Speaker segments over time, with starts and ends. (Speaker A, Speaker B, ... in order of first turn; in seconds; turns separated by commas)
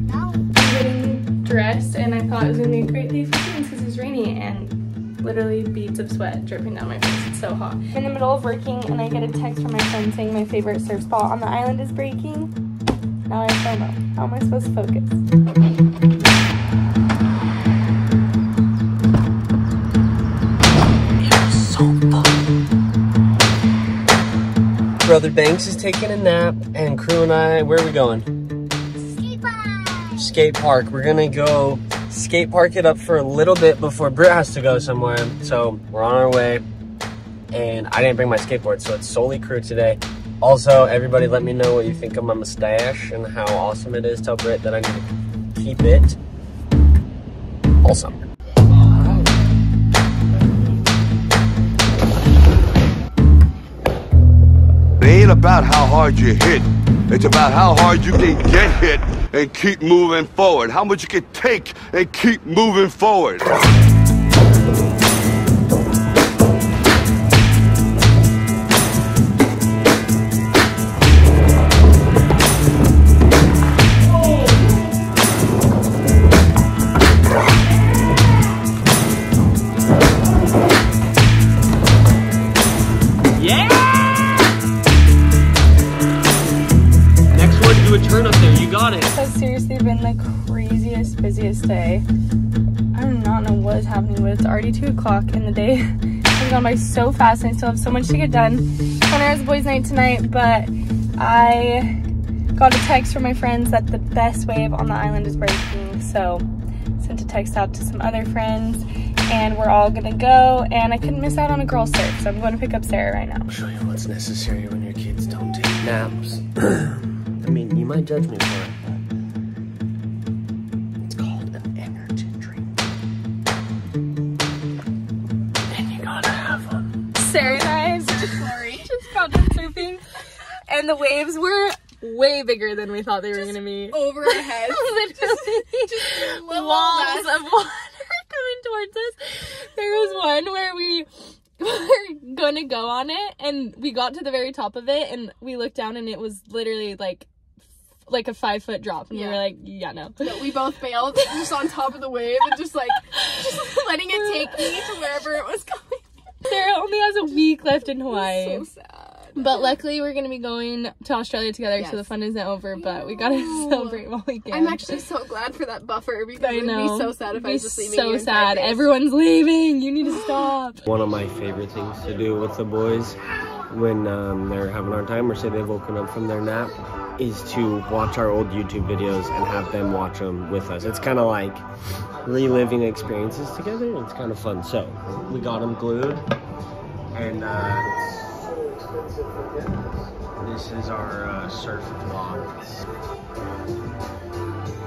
Speaker A: 0.4-12.5, Speaker A: 13.3-15.2, Speaker B: 21.2-22.4, Speaker B: 25.0-28.3, Speaker B: 30.1-36.6, Speaker B: 37.5-46.2, Speaker B: 47.8-48.2, Speaker B: 48.8-49.2, Speaker C: 55.0-63.5, Speaker B: 83.3-84.4, Speaker B: 87.3-89.2, Speaker A: 89.1-92.0, Speaker A: 92.9-95.9, Speaker A: 96.4-101.9, Speaker A: 102.5-106.4, Speaker A: 107.0-113.5, Speaker B: 113.5-119.0, Speaker B: 121.0-122.7, Speaker B: 125.7-126.9, Speaker A: 127.2-130.0, Speaker D: 128.1-128.9, Speaker A: 130.7-147.3, Speaker D: 133.8-137.4, Speaker A: 148.1-150.3, Speaker D: 149.1-149.4, Speaker D: 150.2-156.0, Speaker A: 153.1-154.8, Speaker A: 156.4-158.6, Speaker D: 158.0-159.6, Speaker A: 159.3-165.0, Speaker D: 161.8-162.1, Speaker D: 162.9-168.9, Speaker A: 166.3-170.8, Speaker B: 170.8-173.2, Speaker B: 173.7-181.6, Speaker B: 182.2-186.3, Speaker B: 187.1-187.9, Speaker B: 190.3-192.8